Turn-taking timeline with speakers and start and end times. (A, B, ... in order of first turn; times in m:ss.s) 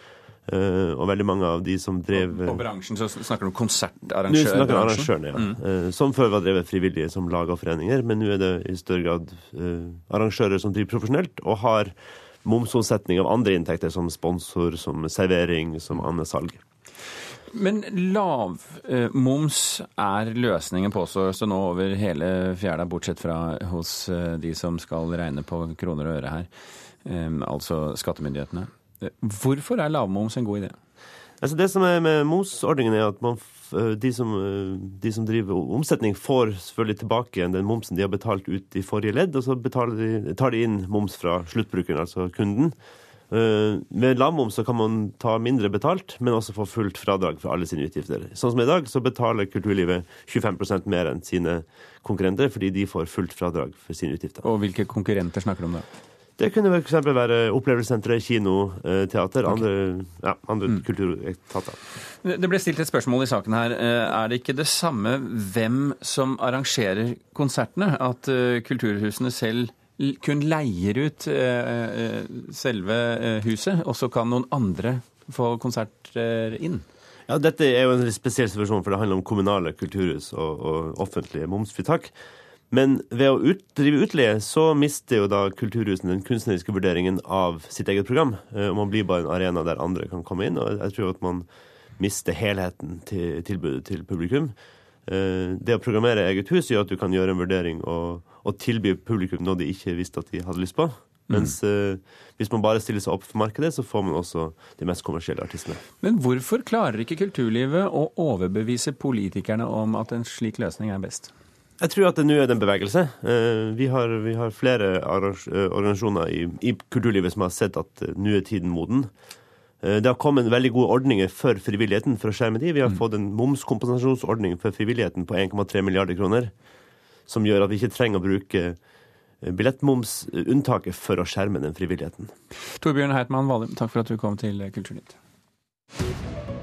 0:00.5-0:02.6 A
0:02.2-0:05.6 B
0:04.3-0:16.6 A
0:17.5-0:26.5 B
0:27.0-0:30.8 B
0:31.4-0:42.8 A
0:43.3-0:54.4 A
0:54.4-0:55.9 B
0:56.4-1:01.8 A
1:02.2-1:16.8 B
1:17.3-1:22.1 A
1:22.7-1:34.6 A
1:35.1-1:45.8 A
1:46.0-1:51.3 B
1:51.8-1:59.1 A
1:59.8-2:06.5 A
2:07.3-2:08.8 A
2:09.4-2:12.3 A
2:12.8-2:15.2 B